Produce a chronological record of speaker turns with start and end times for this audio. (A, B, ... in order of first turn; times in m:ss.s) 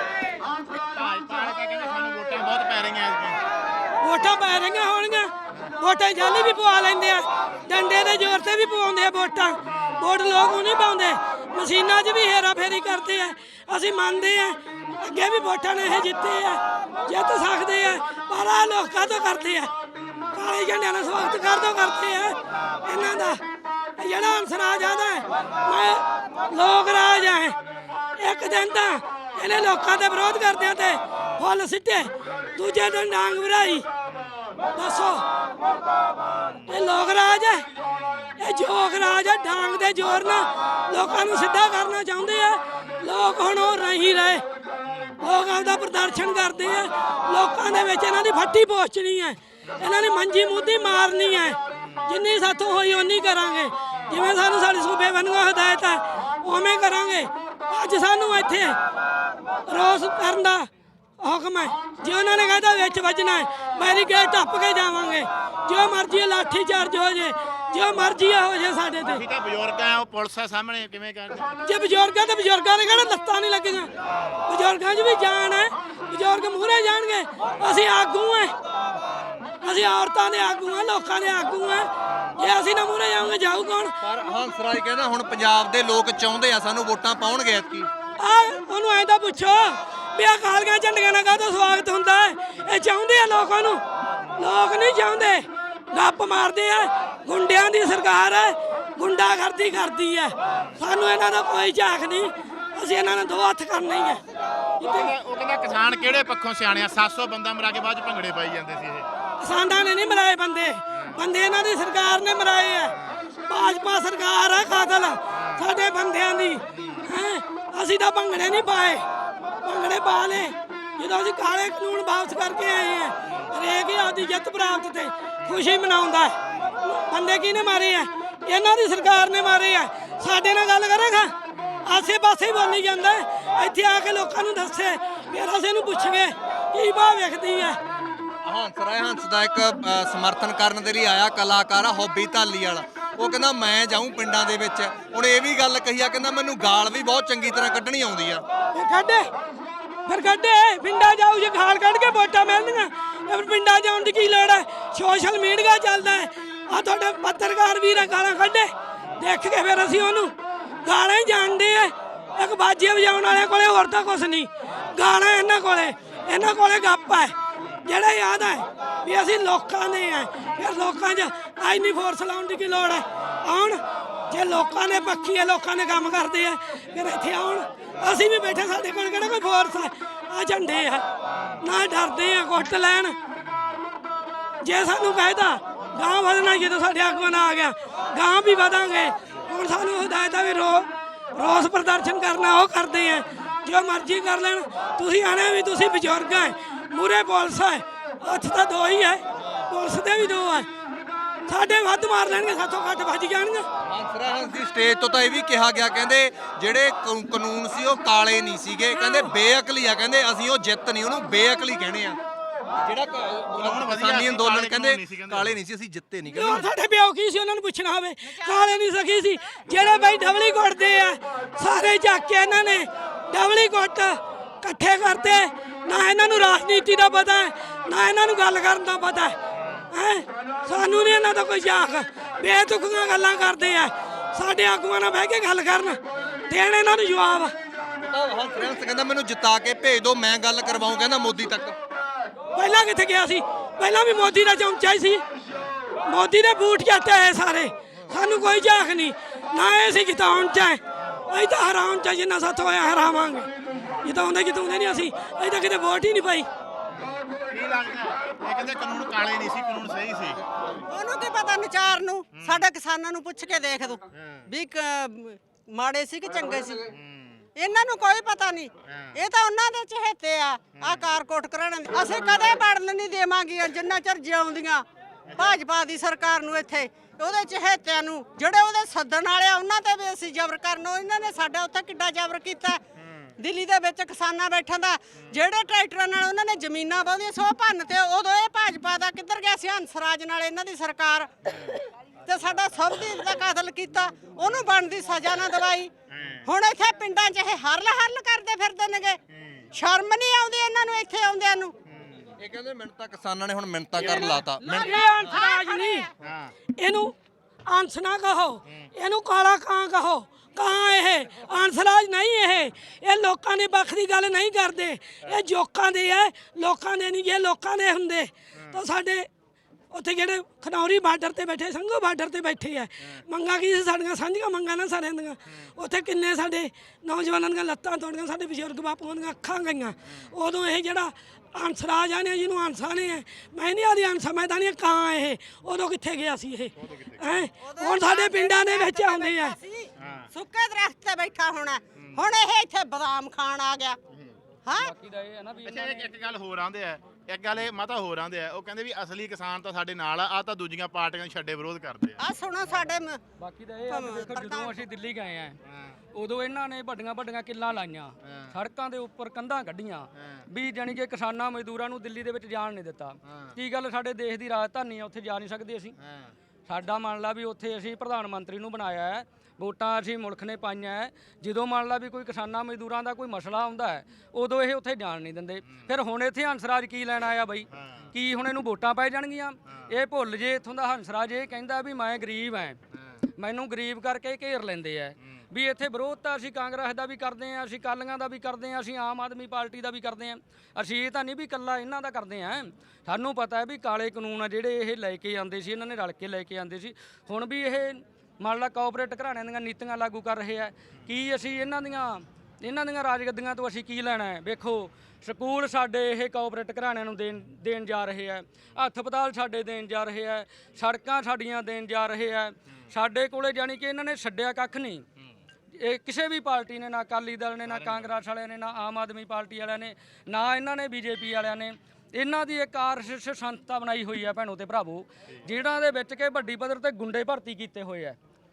0:00.8-0:03.4 A
0:04.0-0:19.7 B
0:09.6-0:10.0 A
0:20.0-0:20.3 A
0:20.3-0:23.4 B
0:24.0-0:27.6 B
0:28.2-0:33.8 B
0:34.8-0:35.2 B
0:36.6-0:37.6 B
0:37.8-0:38.3 A
0:38.4-0:44.4 B
0:44.8-0:45.2 A
0:45.2-0:58.8 B
0:51.8-0:52.0 A
0:59.7-1:00.7 B
1:01.2-1:09.2 B
1:09.0-1:11.5 A
1:11.6-1:13.9 B
1:14.1-1:14.4 A
1:14.5-1:18.5 B
1:19.6-1:23.9 B
1:24.0-1:27.9 C
1:28.2-1:33.8 B
1:34.4-1:44.2 B
1:44.8-1:45.1 B
1:44.8-1:49.1 A
1:49.4-1:52.9 B
1:50.9-1:51.2 A
1:53.5-1:59.0 B
1:55.3-1:55.6 A
1:56.7-1:57.0 A
1:59.6-2:17.8 B
2:11.5-2:11.8 A
2:17.9-2:18.3 A
2:18.4-2:28.4 C
2:28.7-2:29.3 B
2:30.0-2:40.3 B
2:40.8-3:01.0 B
3:01.3-3:01.6 A
3:01.6-3:03.2 B
3:03.5-3:03.7 A
3:04.6-3:20.7 B
3:19.4-3:19.6 C
3:21.4-3:23.7 B
3:23.8-3:32.2 C
3:28.9-3:29.3 B
3:32.8-3:36.7 C
3:33.5-3:35.6 A
3:36.3-3:49.4 B
3:38.2-3:39.1 D
3:49.9-3:57.5 B
3:58.0-4:01.8 C
4:02.5-4:05.2 B
4:06.0-4:13.5 B
4:14.0-4:16.5 B
4:16.9-4:20.4 A
4:20.9-4:26.8 D
4:22.3-4:22.7 A
4:24.1-4:24.5 A
4:26.9-4:27.4 A
4:27.6-4:42.8 D
4:28.8-4:29.2 A
4:30.8-4:31.1 A
4:35.3-4:35.6 A
4:43.0-4:43.3 A
4:43.4-4:51.5 D
4:52.2-4:55.9 D
4:56.1-4:56.5 A
4:56.4-4:59.2 D
4:59.3-4:59.7 A
4:59.7-5:01.7 D
5:01.9-5:02.3 A
5:02.4-5:05.4 C
5:04.0-5:06.0 D
5:04.0-5:04.4 A
5:04.6-5:06.1 B
5:06.2-5:06.5 A
5:06.8-5:07.1 B
5:07.7-5:19.3 B
5:18.5-5:18.8 A
5:19.9-5:39.6 B
5:36.8-5:37.4 A
5:37.6-5:44.0 D
5:40.0-5:40.3 A
5:41.9-5:42.2 A
5:44.1-5:44.4 A
5:44.6-5:44.9 D
5:44.8-5:46.1 E
5:45.6-5:52.3 A
5:52.2-5:53.2 D
5:53.4-5:55.6 E
5:53.9-5:54.8 D
5:55.6-5:56.0 A
5:56.1-6:05.9 E
5:58.2-5:58.6 A
6:00.2-6:00.4 A
6:03.2-6:03.5 A
6:06.0-6:06.3 A
6:06.7-6:22.8 E
6:17.7-6:18.1 A
6:23.4-6:55.0 E
6:55.7-7:08.2 E
6:57.7-6:58.1 A